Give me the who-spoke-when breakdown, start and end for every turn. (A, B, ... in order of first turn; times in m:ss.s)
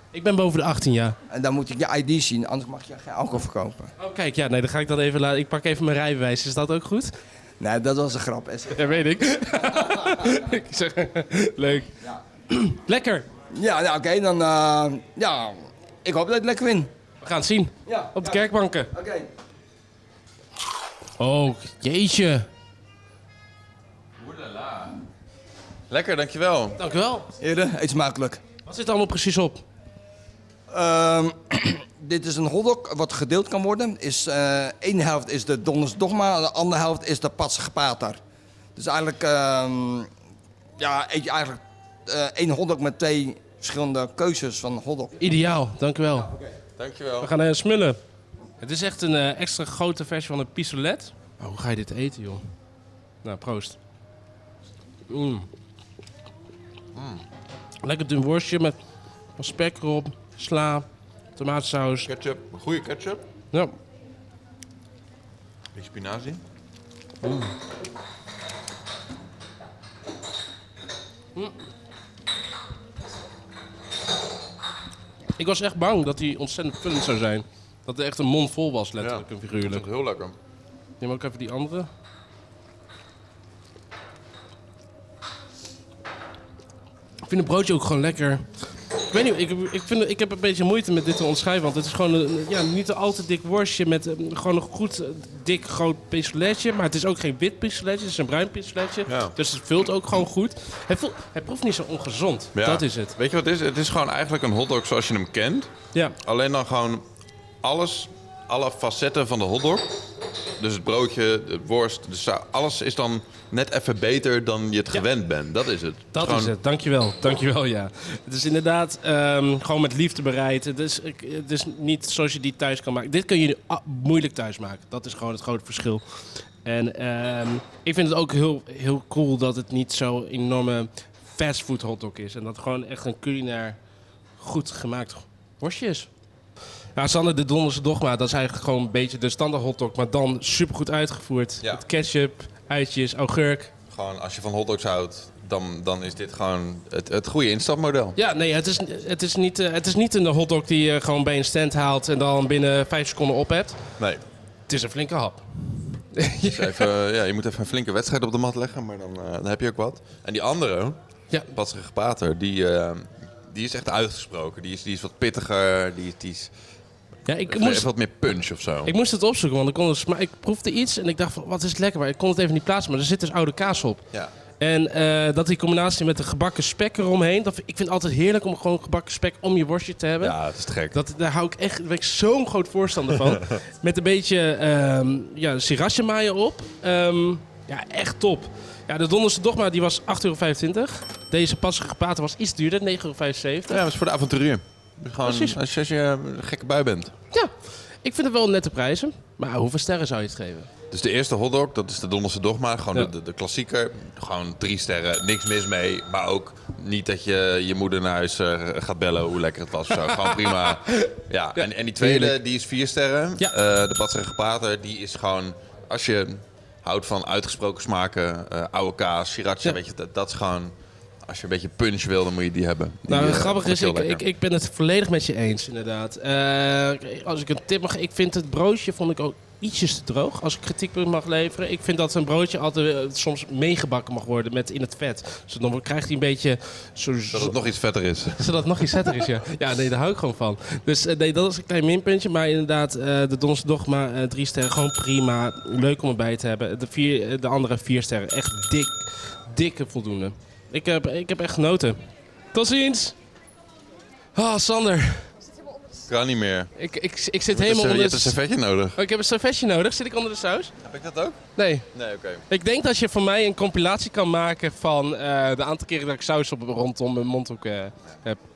0:00.1-0:01.2 A
0:01.3-0:03.9 B
0:04.0-0:07.1 A
0:07.6-0:08.9 B
0:08.7-0:11.9 A
0:09.7-0:10.4 B
0:12.5-0:13.2 A
0:13.5-0:16.9 B
0:17.2-0:18.9 A
0:17.8-0:19.3 B
0:21.2-0:22.5 A
0:24.2-0:25.0 C
0:25.9-0:26.8 C
0:26.8-0:27.3 A
0:27.4-0:28.4 B
0:28.6-0:29.6 A
0:30.7-0:38.2 B
0:38.8-0:40.1 B
0:40.8-0:45.2 B
0:45.2-0:46.3 A
0:46.8-0:47.3 C
0:47.2-0:48.0 A
0:48.6-0:52.4 A
0:53.2-0:53.8 A
0:55.1-0:55.5 A
0:56.9-0:57.2 C
0:57.8-0:58.8 A
0:59.4-1:02.1 A
1:02.0-1:03.2 C
1:05.7-1:06.4 C
1:07.2-1:07.5 A
1:15.4-1:19.8 A
1:19.0-1:20.3 C
1:21.0-1:21.9 A
1:27.2-1:28.5 A
1:29.1-1:43.1 A
1:39.1-1:39.3 C
1:42.5-1:45.7 C
1:46.2-1:47.0 C
1:47.6-1:49.9 C
1:50.6-1:56.5 C
1:56.1-2:06.0 A
2:06.6-2:13.8 A
2:14.4-2:16.1 A
2:17.0-2:23.7 A
2:23.9-2:28.2 C
2:28.2-2:33.8 A
2:34.7-2:36.9 A
2:36.4-2:46.5 C
2:47.3-2:47.9 A
2:47.5-2:48.9 C
2:48.8-2:54.0 A
2:54.6-3:00.3 A
3:00.2-3:01.0 C
3:00.9-3:13.8 A
3:13.7-3:17.1 C
3:15.2-3:15.6 A
3:17.3-3:20.7 A
3:20.9-3:44.2 C
3:29.9-3:32.3 A
3:43.1-3:57.6 A
3:57.3-3:58.5 C
3:58.4-4:13.2 A
4:14.3-4:15.3 A
4:16.1-4:16.7 C
4:16.8-4:18.3 A
4:17.5-4:19.0 C
4:19.0-4:20.7 A
4:20.8-4:21.4 C
4:21.6-4:21.8 A
4:21.9-4:22.4 C
4:22.5-4:28.4 A